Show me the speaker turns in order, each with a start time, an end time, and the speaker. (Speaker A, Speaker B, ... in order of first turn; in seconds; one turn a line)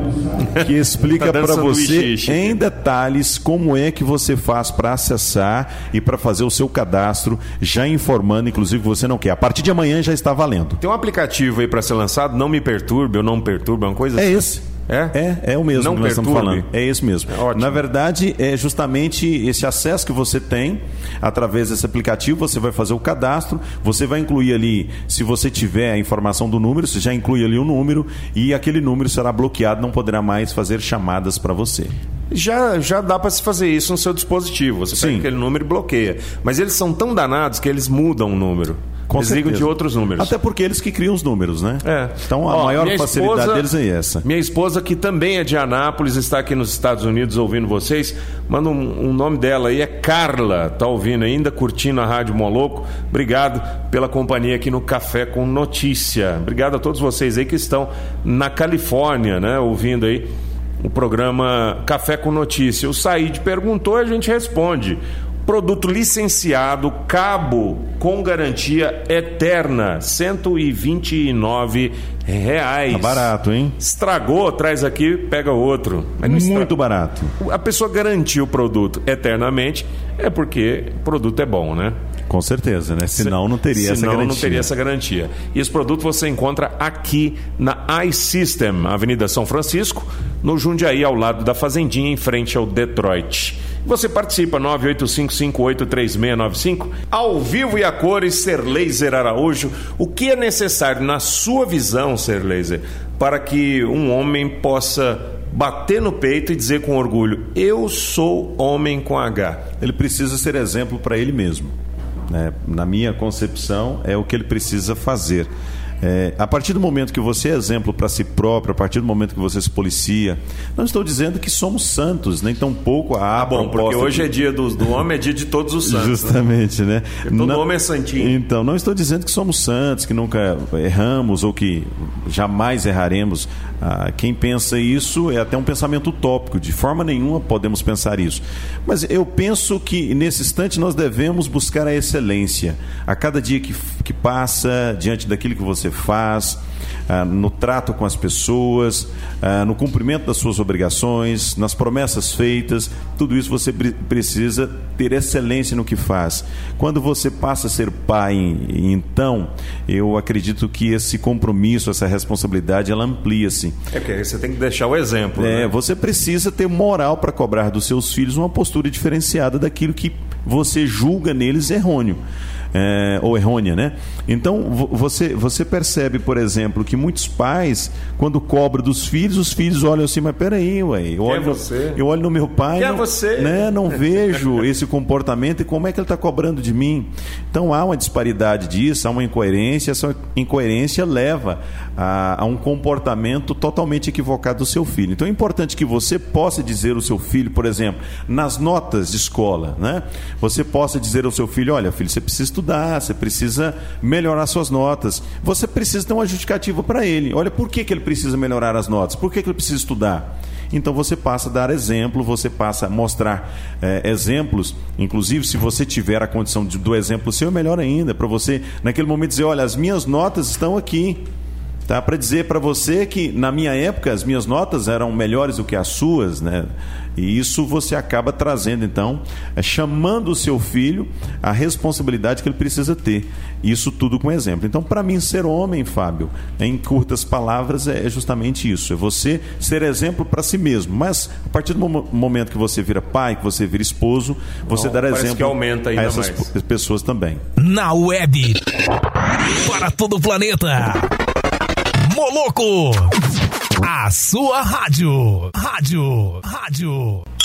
Speaker A: 0.5-2.6
Speaker B: 0.6-10.8
Speaker A: 10.8-15.2
Speaker B: 14.2-31.9
Speaker A: 15.7-16.7
Speaker A: 17.3-17.8
Speaker A: 32.3-40.3
Speaker B: 34.9-35.3
Speaker B: 39.1-44.2
Speaker A: 41.8-43.7
Speaker A: 44.2-60.3
Speaker A: 60.8-76.7
Speaker B: 72.9-73.8
Speaker B: 76.2-77.3
Speaker A: 77.4-82.0
Speaker B: 82.3-84.7
Speaker A: 83.2-109.7
Speaker B: 109.8-111.7
Speaker B: 112.3-115.5
Speaker B: 116.0-124.3
Speaker A: 123.3-126.4
Speaker B: 125.8-163.8
Speaker A: 127.2-128.4
Speaker A: 163.9-165.7
Speaker B: 165.4-172.2
Speaker B: 172.7-221.2
Speaker A: 181.2-182.0
Speaker A: 182.8-183.9
Speaker B: 221.9-247.4
Speaker A: 244.7-246.5
Speaker C: 247.6-248.7
Speaker C: 249.5-251.1
Speaker C: 252.1-257.2